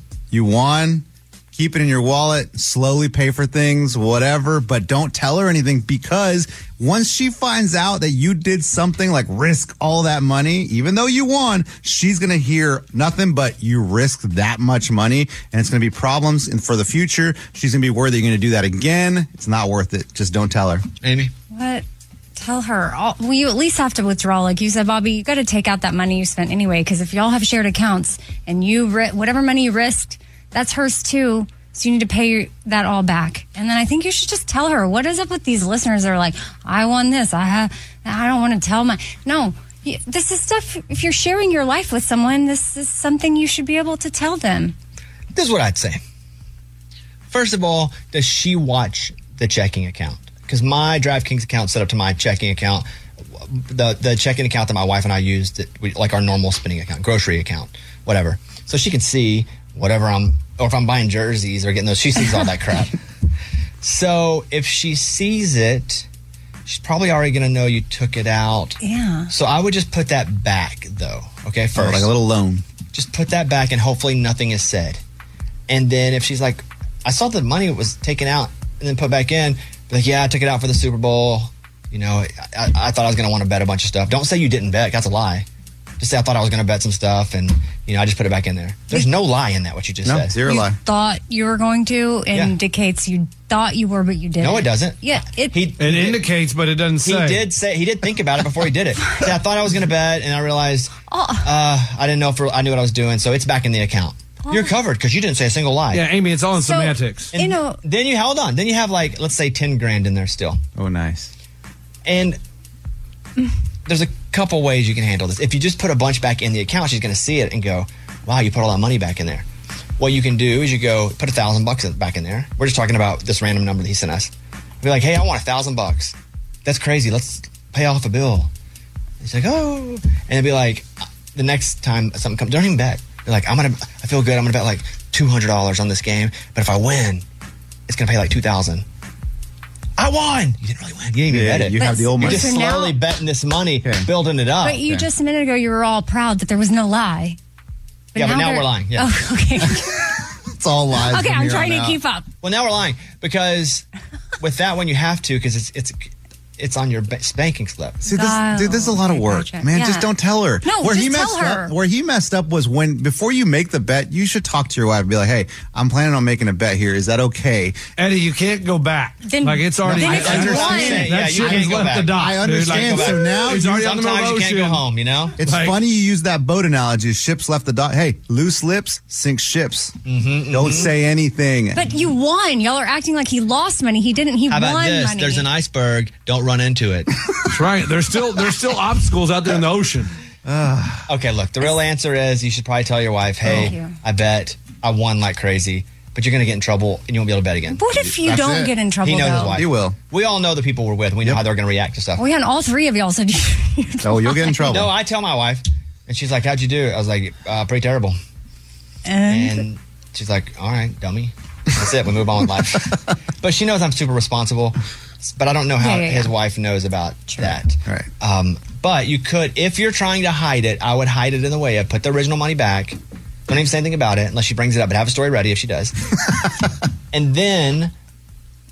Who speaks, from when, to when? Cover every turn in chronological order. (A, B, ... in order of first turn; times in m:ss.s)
0:00.3-0:20.8 A
0:21.0-0:21.3 B
0:21.5-0:21.8 C
0:22.4-0:44.8 C
0:45.3-0:46.0 B
0:47.3-0:52.9 B
0:53.4-1:03.0 B
1:03.8-1:06.1 B
1:06.7-1:08.8 B
1:08.8-1:09.3 C
1:09.3-1:12.1 B
1:11.8-1:12.6 A
1:12.9-1:15.0 B
1:15.7-1:25.5 B
1:26.0-1:30.4 B
1:30.0-1:30.8 A
1:30.4-1:35.6 C
1:34.4-1:36.2 B
1:35.8-1:37.5 D
1:37.0-1:40.9 B
1:41.1-1:41.5 C
1:41.4-1:46.0 B
1:44.4-1:44.7 C
1:45.9-1:47.3 D
1:46.6-1:47.8 C
1:47.3-1:50.6 B
1:50.8-1:51.3 A
1:52.0-1:52.4 B
1:53.9-1:59.5 B
2:00.0-2:04.3 B
2:04.8-2:08.5 B
2:09.2-2:17.2 B
2:17.9-2:18.8 B
2:20.0-2:24.8 B
2:21.3-2:22.6 A
2:21.8-2:23.0 C
2:23.8-2:24.1 A
2:24.6-2:27.4 C
2:28.1-2:30.1 C
2:28.2-2:29.1 B
2:29.6-2:32.0 A
2:31.0-2:32.3 C
2:32.4-2:33.9 B
2:34.4-2:38.0 B
2:38.0-2:47.8 A
2:38.1-2:40.1 C
2:40.6-2:41.7 C
2:48.0-2:54.8 D
2:49.2-2:51.1 C
2:49.8-2:53.7 A
2:50.0-2:55.4 B
2:55.4-3:00.0 A
2:55.4-2:55.8 D
3:00.0-3:00.9 B
3:00.5-3:01.9 A
3:01.8-3:05.5 C
3:04.5-3:07.1 B
3:07.5-3:10.1 D
3:10.4-3:11.1 A
3:11.1-3:17.8 B
3:13.4-3:13.7 A
3:13.5-3:14.0 C
3:17.8-3:19.6 C
3:17.9-3:18.8 A
3:19.0-3:22.2 B
3:19.5-3:20.0 A
3:22.2-3:24.7 C
3:24.0-3:24.9 A
3:24.7-3:28.2 B
3:29.1-3:29.7 C
3:29.3-3:46.0 B
3:35.8-3:36.3 C
3:47.1-3:47.9 B